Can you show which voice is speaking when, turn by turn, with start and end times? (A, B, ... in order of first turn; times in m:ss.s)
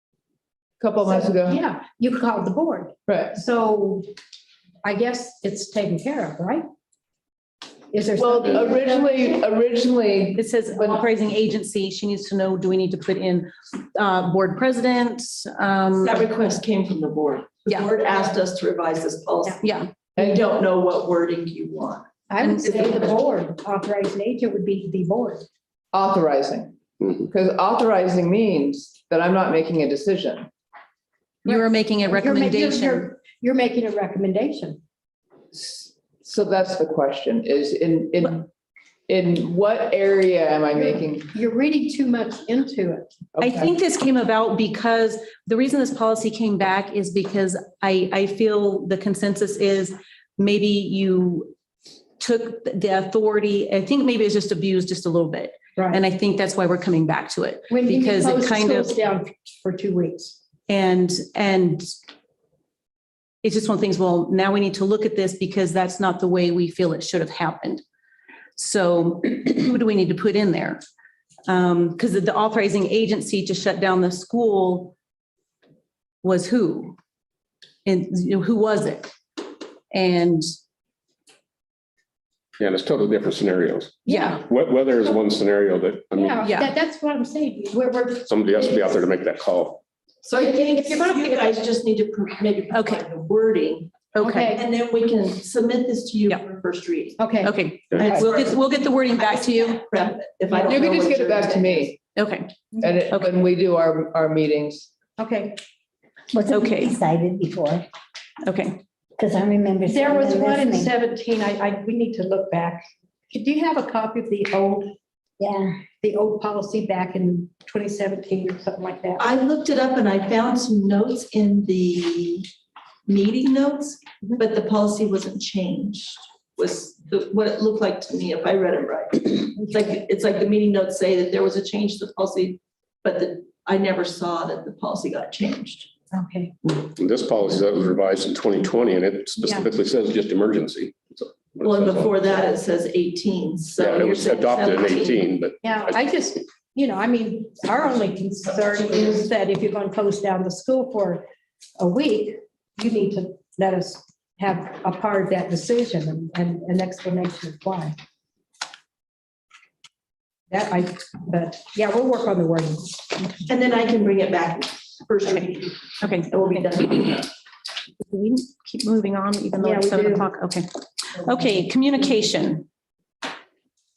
0:00.8-0:01.6 A
0:01.1-0:04.1 B
0:03.1-0:03.4 A
0:04.8-0:06.6 B
0:07.9-0:09.3 B
0:08.2-0:11.0 A
0:10.3-0:16.2 C
0:16.0-0:19.6 D
0:19.6-0:19.9 C
0:20.2-0:20.6 A
0:20.2-0:22.1 D
0:22.3-0:25.4 B
0:22.4-0:22.9 C
0:22.7-0:23.1 D
0:25.9-0:30.5 A
0:31.4-0:33.1 C
0:31.5-0:34.8 B
0:35.5-0:38.5 A
0:39.1-0:41.3 A
0:40.7-0:43.1 B
0:43.3-0:43.7 A
0:43.4-0:51.5 C
0:52.2-0:59.0 C
0:57.7-1:00.3 B
1:00.7-1:01.9 C
1:03.4-1:07.8 C
1:08.6-1:10.8 C
1:11.5-1:15.0 C
1:16.2-1:17.0 C
1:17.8-1:19.1 C
1:19.9-1:20.5 C
1:22.6-1:26.5 E
1:24.1-1:24.4 B
1:24.1-1:24.4 C
1:26.2-1:28.3 B
1:26.4-1:26.7 C
1:28.3-1:29.8 E
1:30.2-1:37.2 D
1:30.4-1:31.4 B
1:32.7-1:33.0 C
1:34.1-1:34.6 C
1:34.2-1:34.6 B
1:37.2-1:37.5 B
1:37.4-1:39.8 C
1:37.9-1:38.2 E
1:38.0-1:38.6 D
1:39.2-1:42.0 D
1:40.5-1:42.0 A
1:42.1-1:42.6 C
1:42.8-1:44.9 A
1:45.2-1:45.6 B
1:46.3-1:47.8 F
1:46.5-1:47.0 C
1:48.4-1:48.8 C
1:49.2-1:50.9 F
1:49.9-1:54.9 B
1:55.4-1:55.8 F
1:55.9-1:59.3 B
1:59.2-2:02.5 D
2:03.1-2:15.9 D
2:16.1-2:16.5 B
2:17.0-2:22.3 E
2:21.6-2:25.3 D
2:23.8-2:25.7 E
2:25.6-2:31.2 B
2:31.8-2:38.0 B
2:40.5-2:43.4 B
2:43.5-2:47.3 D
2:46.0-2:47.1 C
2:48.0-2:50.7 C
2:49.6-2:50.3 B
2:51.2-2:52.7 C